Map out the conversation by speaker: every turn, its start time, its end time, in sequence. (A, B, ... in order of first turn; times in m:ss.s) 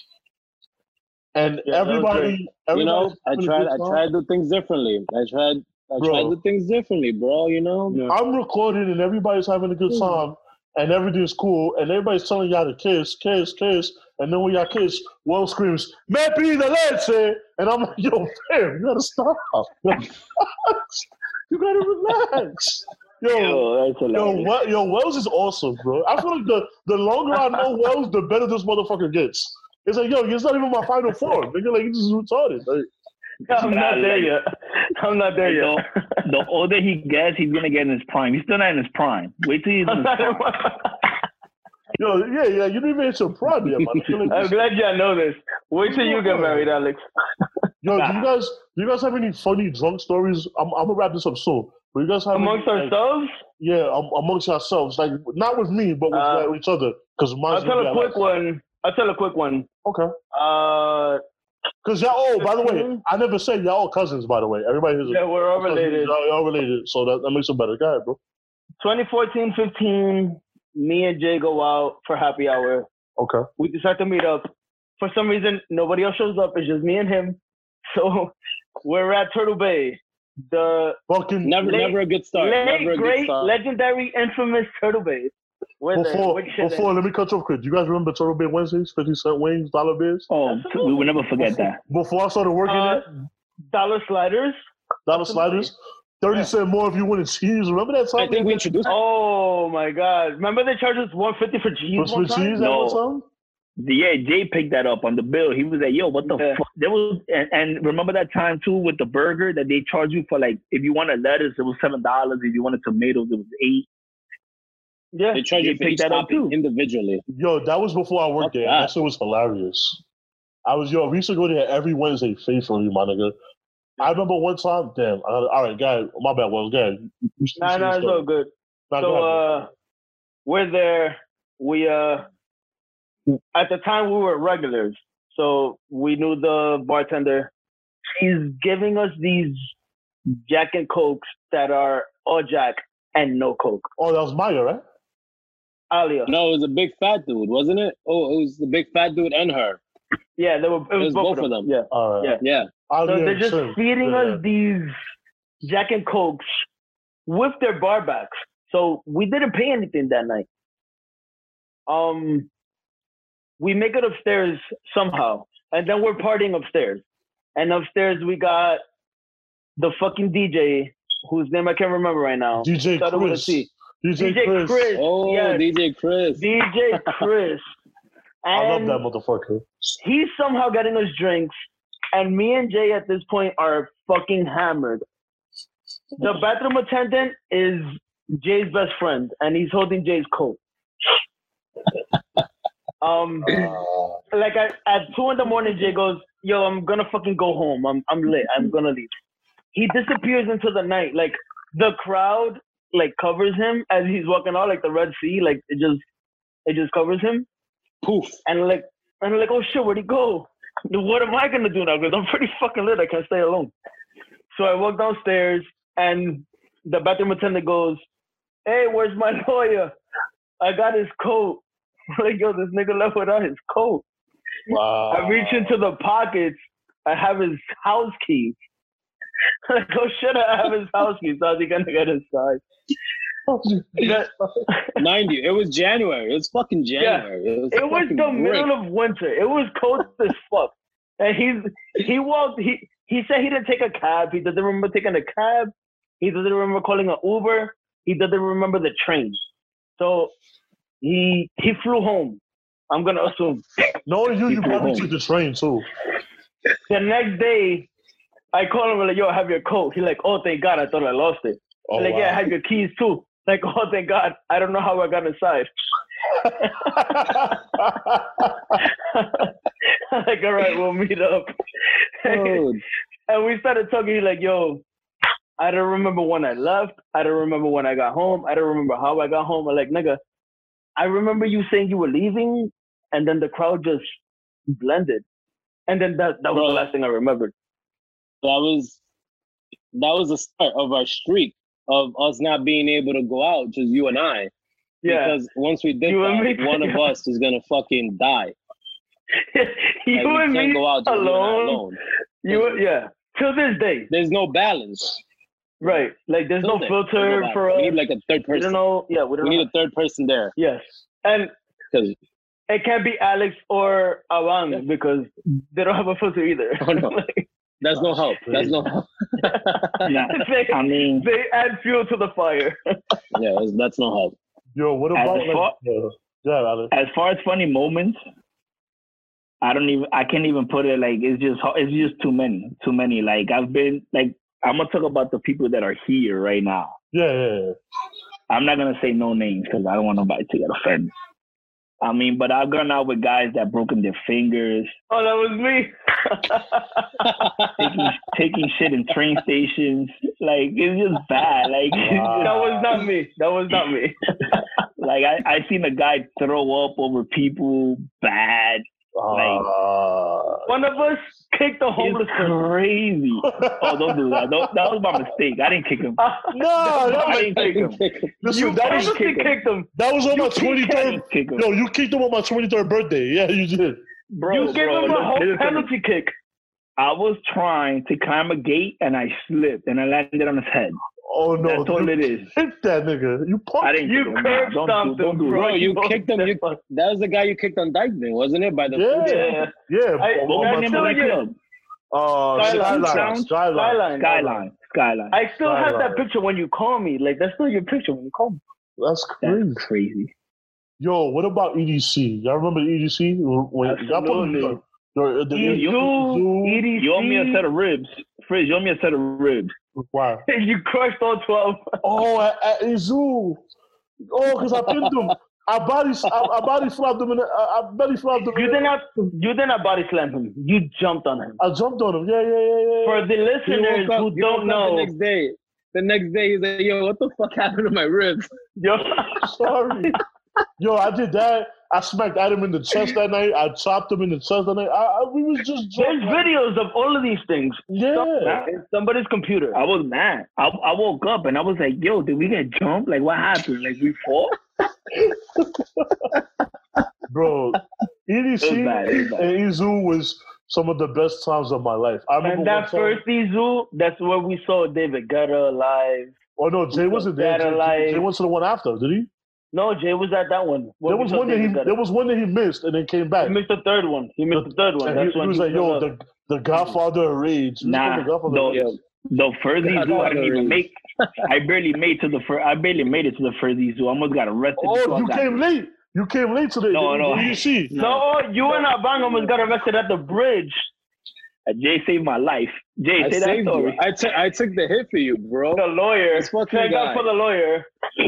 0:01.3-0:04.0 A
0:01.6-0:02.4 B
0:02.7-0:08.0 C
0:06.0-0:06.4 A
0:07.9-0:08.2 B
0:08.1-0:32.9 A
0:23.3-0:24.5 D
0:33.4-0:34.4 B
0:33.6-0:34.3 D
0:35.0-0:35.8 B
0:35.4-0:40.4 D
0:39.9-0:41.0 B
0:42.0-0:44.6 A
0:44.3-0:47.0 B
0:45.8-0:46.7 A
0:47.8-0:53.0 A
0:52.3-0:53.4 B
0:53.6-0:58.2 A
0:56.1-0:56.5 B
0:57.5-0:59.7 B
0:59.8-1:00.1 A
1:00.3-1:01.2 B
1:01.8-1:08.2 A
1:02.4-1:03.0 B
1:05.1-1:06.1 B
1:08.8-1:12.9 B
1:13.2-1:13.4 A
1:13.6-1:21.0 B
1:21.1-1:21.6 A
1:21.4-1:23.5 C
1:21.6-1:26.9 B
1:25.9-1:30.3 A
1:30.3-1:31.8 D
1:30.5-1:31.1 B
1:31.4-1:33.0 A
1:32.6-1:33.0 B
1:33.7-1:34.6 B
1:35.1-1:38.7 A
1:35.1-1:35.7 B
1:38.2-1:39.0 C
1:38.8-1:42.6 B
1:42.0-1:43.2 A
1:42.6-1:43.0 D
1:43.8-1:53.9 D
1:46.2-1:46.6 B
1:55.1-1:55.4 B
1:55.3-1:57.2 C
1:55.5-1:56.6 D
1:57.3-2:00.0 A
1:58.4-1:58.9 C
2:00.6-2:03.3 A
2:04.0-2:08.2 A
2:07.6-2:09.7 B
2:08.9-2:09.6 A
2:10.4-2:12.2 B
2:13.5-2:17.5 B
2:18.1-2:19.6 B
2:20.4-2:23.9 B
2:24.0-2:24.8 A
2:25.9-2:26.3 B
2:26.3-2:29.8 C
2:30.4-2:32.4 B
2:31.0-2:31.7 C
2:31.9-2:34.4 A
2:32.4-2:32.7 C
2:33.0-2:34.9 B
2:35.6-2:36.4 B
2:37.3-2:40.4 B
2:41.9-2:42.5 B
2:43.6-2:47.0 B
2:47.5-2:48.8 B
2:49.8-2:55.6 B
2:52.6-2:54.9 A
2:55.0-2:56.4 C
2:56.4-2:57.6 B
2:58.4-2:59.0 B
2:58.5-2:59.6 A
3:00.0-3:01.5 B
3:02.1-3:05.0 B
3:06.2-3:10.6 B
3:13.0-3:13.5 B
3:14.3-3:19.1 B
3:19.7-3:26.0 B
3:26.6-3:27.4 B
3:28.0-3:28.4 C
3:28.4-3:33.7 B
3:34.5-3:38.0 B
3:38.6-3:39.9 B
3:40.6-3:41.6 B
3:42.2-3:44.0 B
3:44.7-3:45.8 A
3:45.1-3:48.5 B
3:49.7-3:52.6 B
3:53.5-3:54.6 A
3:54.0-3:55.0 B
3:55.0-3:58.7 C
3:57.0-4:09.4 B
4:10.0-4:10.3 B
4:11.0-4:13.6 B
4:14.0-4:15.8 A
4:14.5-4:15.0 D
4:16.9-4:17.9 B
4:18.5-4:25.7 B
4:21.9-4:22.4 A
4:26.6-4:27.6 B
4:26.8-4:28.5 A
4:28.7-4:29.5 B
4:30.1-4:31.5 B
4:32.2-4:32.6 B
4:32.2-4:32.8 C
4:33.3-4:34.8 B
4:35.6-4:40.2 B
4:41.0-4:44.0 B
4:44.7-4:45.2 B
4:45.9-4:47.5 B
4:46.5-4:46.9 C
4:48.4-4:49.0 C
4:49.9-4:54.5 C
4:55.0-4:55.4 B
4:55.0-4:58.5 C
4:56.1-4:57.0 B
4:59.5-5:01.8 B
5:00.1-5:02.8 C
5:02.4-5:04.1 B
5:04.1-5:05.2 C
5:05.8-5:07.9 B
5:06.6-5:08.8 C
5:08.5-5:09.7 B
5:09.4-5:10.5 C
5:10.6-5:11.5 B
5:12.7-5:17.4 B
5:16.8-5:17.2 C
5:17.8-5:20.2 C
5:18.4-5:18.8 A
5:20.0-5:21.3 D
5:20.3-5:22.8 B
5:23.3-5:24.3 C
5:24.7-5:26.9 A
5:25.1-5:25.7 D
5:26.9-5:28.2 D
5:29.6-5:36.9 D
5:37.1-5:37.7 A
5:38.5-5:41.1 D
5:42.0-5:44.9 D
5:45.1-5:47.3 B
5:47.3-5:47.6 C
5:47.8-5:52.6 D
5:52.0-5:52.9 A
5:52.4-5:54.6 B
5:55.0-5:59.7 D
5:59.2-6:00.7 A
6:00.7-6:02.6 B
6:02.0-6:06.2 D
6:03.5-6:04.7 A
6:06.2-6:11.1 B
6:06.5-6:07.7 A
6:07.1-6:08.0 D
6:07.8-6:08.3 C
6:08.4-6:09.2 A
6:08.8-6:09.5 D
6:09.9-6:14.0 A
6:10.8-6:11.7 D
6:14.3-6:15.9 D
6:14.5-6:16.3 B
6:17.0-6:21.0 D
6:21.2-6:24.1 A
6:21.6-6:22.5 D
6:23.8-6:25.7 D
6:24.0-6:26.8 B
6:25.5-6:29.5 C
6:28.9-6:31.3 A
6:29.2-6:31.4 B
6:30.4-6:31.5 D
6:32.1-6:34.0 A
6:32.5-6:34.6 B
6:32.6-6:33.5 D
6:34.2-6:35.4 D
6:35.3-6:38.6 B
6:35.6-6:36.2 A
6:39.0-6:39.8 A
6:39.4-6:40.3 D
6:41.0-6:46.8 A
6:43.8-6:44.8 B
6:45.5-6:47.6 B
6:45.6-6:46.0 D
6:47.0-6:49.7 D
6:50.0-6:50.4 A
6:50.5-6:52.0 B
6:52.0-6:53.6 A
6:54.3-6:58.9 A
6:58.5-7:01.6 B
7:01.6-7:03.2 A
7:03.0-7:05.1 B
7:03.6-7:08.5 C
7:08.8-7:09.5 B
7:09.4-7:10.1 A
7:10.8-7:16.5 A
7:16.0-7:19.8 B
7:17.9-7:18.6 A
7:18.4-7:18.7 D
7:19.7-7:24.6 D
7:27.3-7:33.2 A
7:28.6-7:29.5 D
7:32.4-7:36.3 B
7:36.6-7:39.3 A
7:36.9-7:38.2 B
7:39.7-7:41.9 B
7:41.0-7:43.6 A
7:43.4-7:46.1 B
7:44.5-7:48.9 A
7:47.8-7:55.6 D
7:49.8-7:51.3 C
7:54.8-7:57.9 A
7:56.9-7:57.6 D
7:57.9-7:58.2 C
7:58.0-8:00.8 B
7:58.8-7:59.4 C
8:01.7-8:04.0 D
8:03.2-8:07.3 C
8:05.8-8:07.9 B